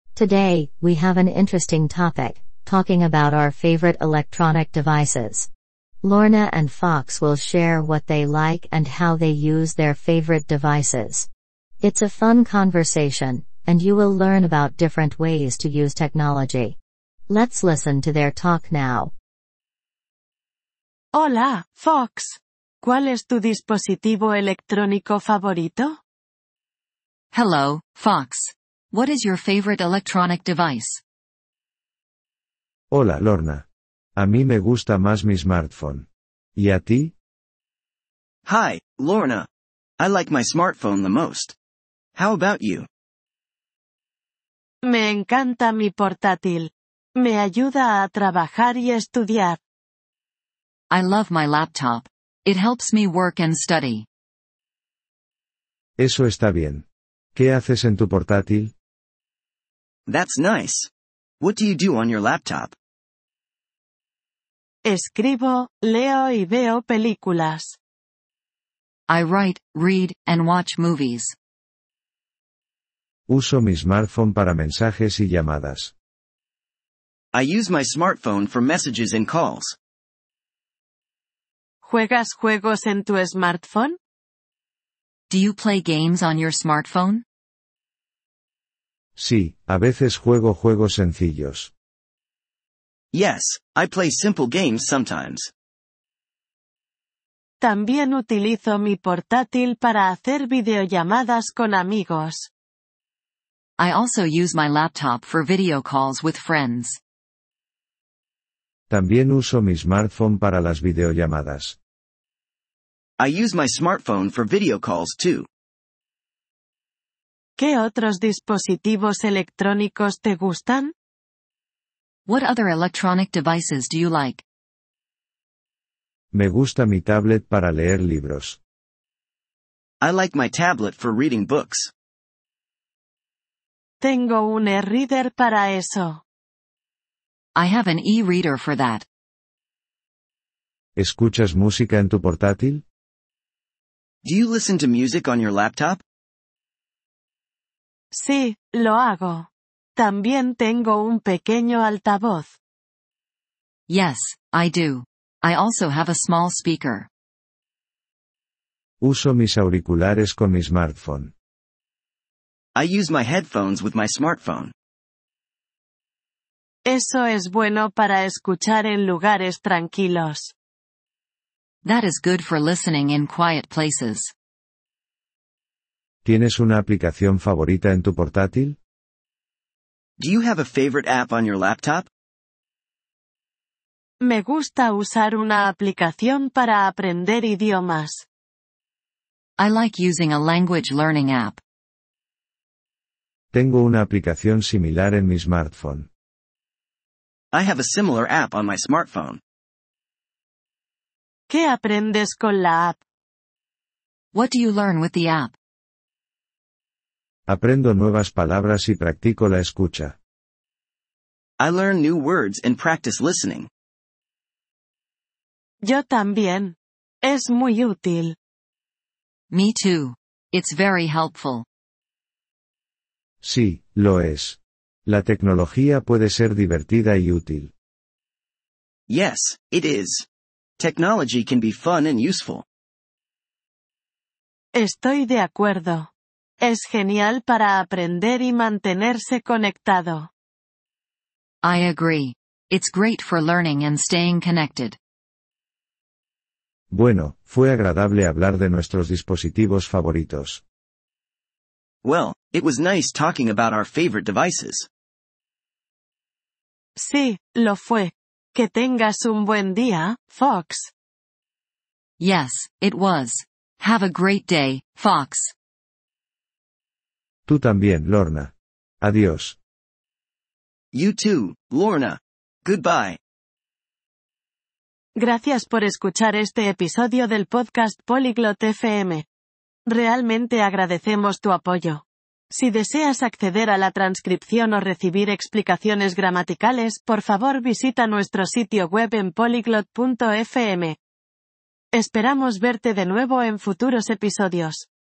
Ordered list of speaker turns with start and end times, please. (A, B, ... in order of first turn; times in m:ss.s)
0:00.2-0:05.5 A
0:06.0-0:11.3 A
0:11.8-0:16.8 A
0:17.3-0:19.1 A
0:21.2-0:25.9 B
0:27.3-0:31.0 C
0:32.9-0:33.6 D
0:34.2-0:37.1 D
0:38.4-0:39.5 E
0:40.0-0:41.6 E
0:42.2-0:42.9 E
0:44.9-0:46.7 B
0:47.2-0:49.6 B
0:50.9-0:54.1 C
0:56.0-0:56.8 D
0:57.4-0:58.7 D
1:00.1-1:02.8 E
1:04.9-1:07.8 B
1:09.1-1:11.4 C
1:13.3-1:15.9 D
1:17.3-1:19.8 E
1:21.8-1:24.0 B
1:25.3-1:27.2 C
1:29.2-1:31.7 D
1:33.1-1:35.5 E
1:37.6-1:42.5 B
1:43.8-1:47.0 C
1:48.9-1:51.8 D
1:53.2-1:55.5 E
1:57.6-2:00.9 B
2:02.3-2:04.4 C
2:06.3-2:08.6 D
2:10.0-2:11.9 E
2:14.0-2:16.2 B
2:17.6-2:19.1 C
2:21.0-2:22.8 D
2:24.2-2:26.0 E
2:28.2-2:29.5 B
2:30.0-2:32.5 B
2:33.9-2:37.1 C
2:39.0-2:41.3 D
2:42.8-2:44.7 E
2:46.9-2:50.5 B
2:51.8-2:54.3 C
2:56.2-2:58.8 D
3:00.2-3:02.1 E
3:04.3-3:08.2 B
3:09.6-3:11.6 C
3:13.5-3:16.1 D
3:17.5-3:19.4 E
3:21.5-3:23.0 B
3:24.3-3:25.5 C
3:27.5-3:30.2 D
3:31.6-3:33.7 E
3:35.9-3:36.8 B
3:37.3-3:38.3 B
3:39.5-3:41.7 C
3:43.4-3:47.7 D
3:49.1-3:50.3 E
3:50.8-3:52.6 E
3:54.8-3:56.1 B
3:56.7-4:00.3 B
4:01.6-4:05.0 C
4:06.9-4:10.6 D
4:12.0-4:14.9 E
4:17.0-4:20.9 B
4:22.2-4:25.5 C
4:27.5-4:29.6 D
4:30.9-4:33.2 E
4:35.2-4:39.2 B
4:40.0-4:42.0 B
4:42.5-4:51.0 B
4:52.0-4:54.9 B